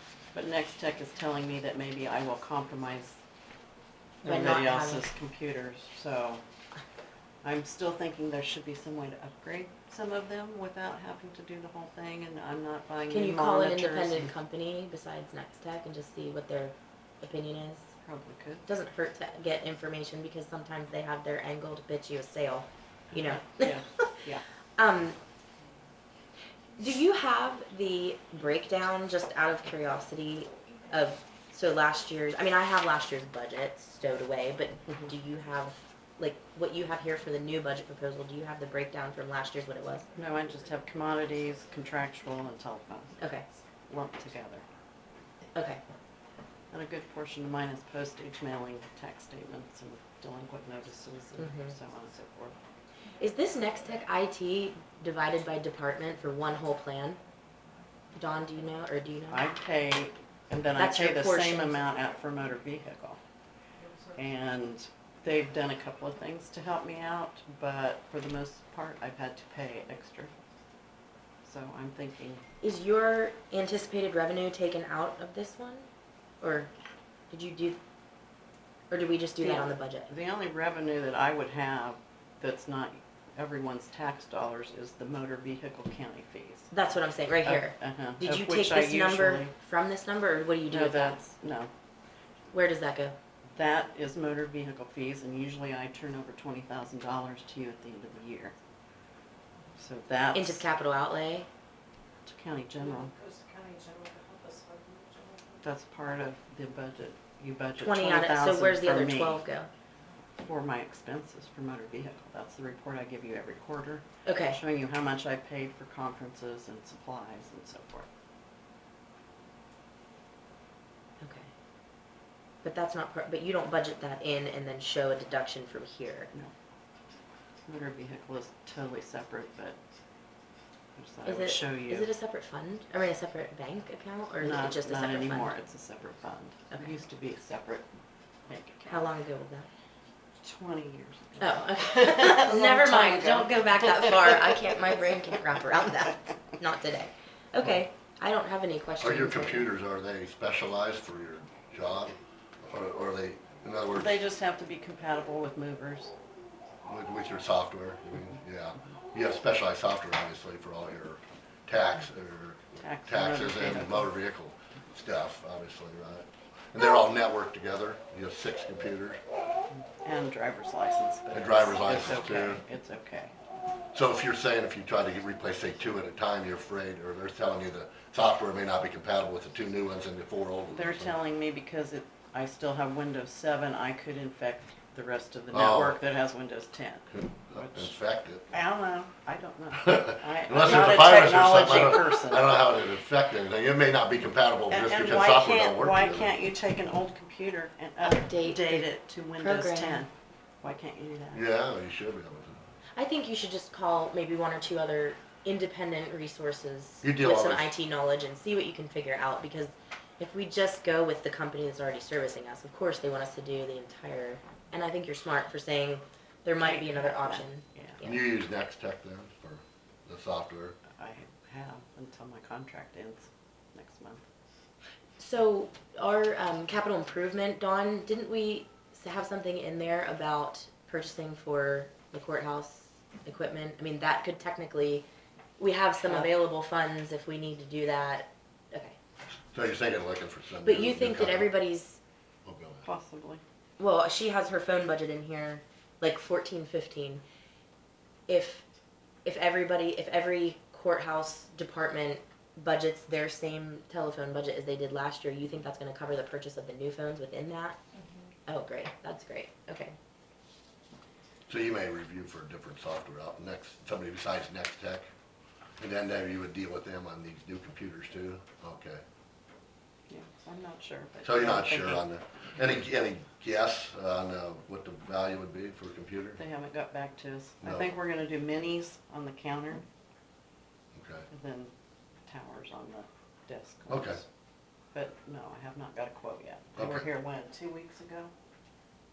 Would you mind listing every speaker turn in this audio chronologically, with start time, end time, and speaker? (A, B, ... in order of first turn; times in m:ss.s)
0:00.3-0:03.2 A
0:04.2-0:06.4 A
0:04.2-0:05.1 B
0:07.4-0:14.3 A
0:13.1-0:17.9 B
0:18.0-0:18.6 A
0:18.7-0:24.1 B
0:23.1-0:24.4 A
0:24.8-0:25.2 B
0:26.8-0:40.1 B
0:40.2-0:43.2 A
0:43.2-0:43.4 B
0:43.9-0:44.6 A
0:45.5-0:45.8 B
0:46.7-0:52.6 A
0:51.4-0:51.7 B
0:53.2-0:57.2 B
0:58.1-0:59.4 B
0:59.3-1:03.2 A
1:00.8-1:01.8 B
1:03.8-1:04.1 C
1:04.1-1:10.3 A
1:11.4-1:12.4 A
1:12.6-1:15.8 B
1:16.4-1:16.7 B
1:17.3-1:17.8 B
1:18.9-1:20.1 B
1:19.4-1:26.7 A
1:26.7-1:31.2 B
1:27.4-1:29.5 A
1:30.7-1:31.7 A
1:32.5-1:33.2 B
1:33.5-1:38.5 A
1:39.8-1:40.6 A
1:40.3-1:41.5 B
1:42.2-1:43.2 A
1:43.1-1:45.6 C
1:45.6-1:49.4 A
1:47.8-1:49.7 B
1:50.4-1:58.1 A
1:54.2-1:54.6 B
2:01.2-2:01.5 B
2:02.6-2:06.3 B
2:07.7-2:09.8 A
2:11.0-2:12.1 A
2:11.2-2:15.5 B
2:14.4-2:17.8 A
2:18.5-2:19.1 A
2:18.9-2:19.7 B
2:20.4-2:25.0 A
2:21.4-2:29.7 B
2:29.0-2:34.2 D
2:33.9-2:36.1 A
2:36.8-2:49.2 D
2:42.8-2:44.1 A
2:49.8-2:53.3 A
2:51.3-2:52.6 D
2:53.9-3:01.2 D
3:00.7-3:08.0 A
3:05.5-3:06.0 D
3:07.1-3:08.5 D
3:08.5-3:12.7 A
3:09.8-3:16.3 D
3:14.7-3:20.1 A
3:18.0-3:20.0 B
3:20.6-3:21.4 A
3:21.3-3:22.6 D
3:23.0-3:38.2 B
3:27.0-3:27.7 D
3:36.6-3:38.0 A
3:38.0-3:40.8 D
3:40.9-3:44.2 A
3:45.2-3:55.0 B
3:55.6-3:59.0 B
3:56.0-3:56.3 A
3:59.5-4:01.5 D
4:00.6-4:02.0 B
4:02.4-4:02.8 D
4:02.8-4:03.4 A
4:03.8-4:07.2 B
4:08.3-4:08.6 B
4:09.2-4:17.8 B
4:18.5-4:20.0 B
4:21.5-4:25.0 D
4:25.8-4:29.0 D
4:30.1-4:32.0 A
4:31.2-4:36.4 D
4:36.4-4:39.8 A
4:37.6-4:37.9 D
4:40.9-4:41.2 D
4:41.3-4:41.7 A
4:42.3-4:44.2 A
4:43.9-4:44.2 D
4:44.9-4:48.3 A
4:46.8-4:47.0 D